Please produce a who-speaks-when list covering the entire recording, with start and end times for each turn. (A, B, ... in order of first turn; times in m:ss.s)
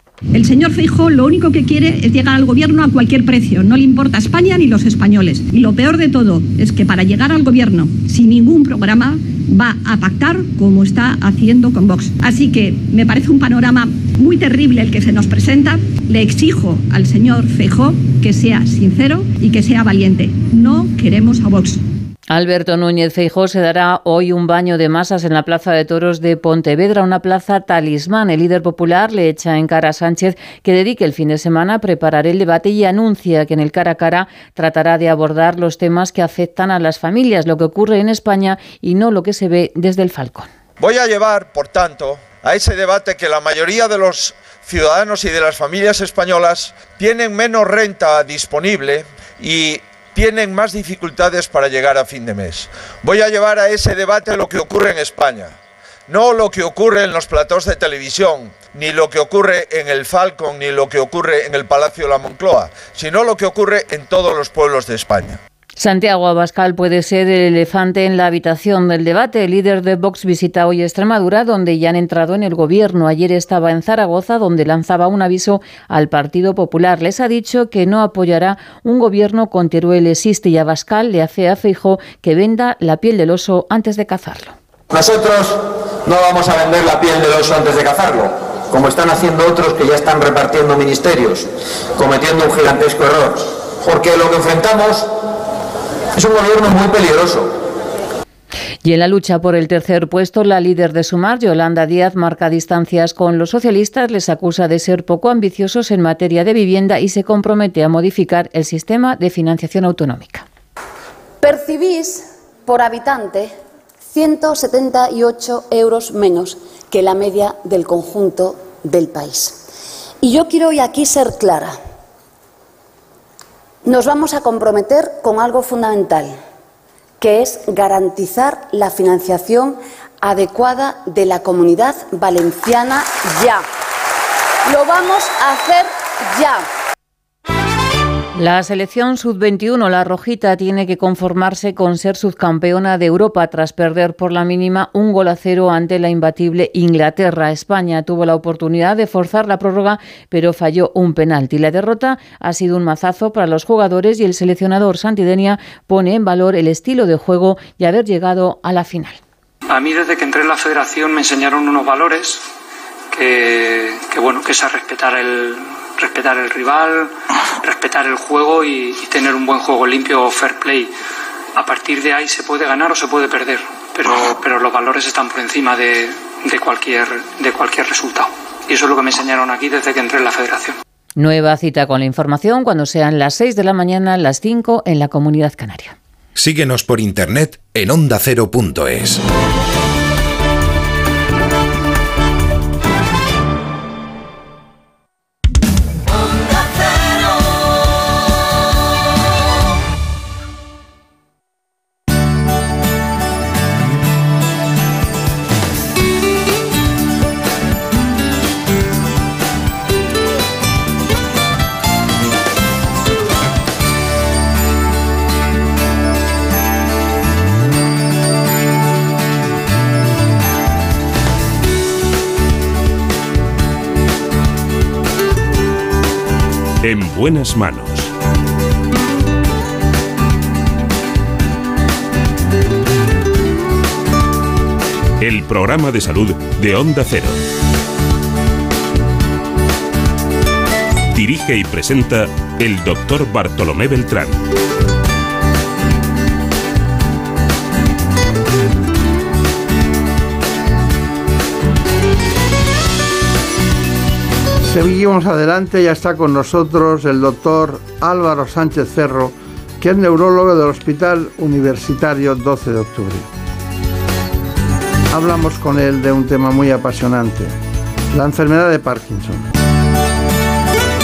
0:00.3-0:21.8 A
0:22.3-0:40.5 B
0:40.8-0:55.6 C
0:56.1-1:05.4 C
1:05.8-1:24.5 B
1:24.9-1:35.1 D
1:36.2-1:37.5 D
1:38.8-1:50.4 B
1:51.4-1:53.5 E
1:54.1-1:59.6 E
2:00.2-2:01.8 E
2:03.8-2:06.3 E
2:07.2-2:13.6 E
2:14.7-2:16.6 E
2:18.4-2:39.2 B
2:39.7-2:42.4 F
2:43.1-2:47.1 F
2:47.7-2:50.9 F
2:51.6-3:00.7 F
3:01.2-3:06.0 B
3:06.4-3:09.2 G
3:46.8-3:48.1 H
3:55.2-3:57.4 H
4:01.1-4:04.4 H
4:14.7-4:23.3 I
4:25.1-4:27.5 I
4:28.1-4:29.4 I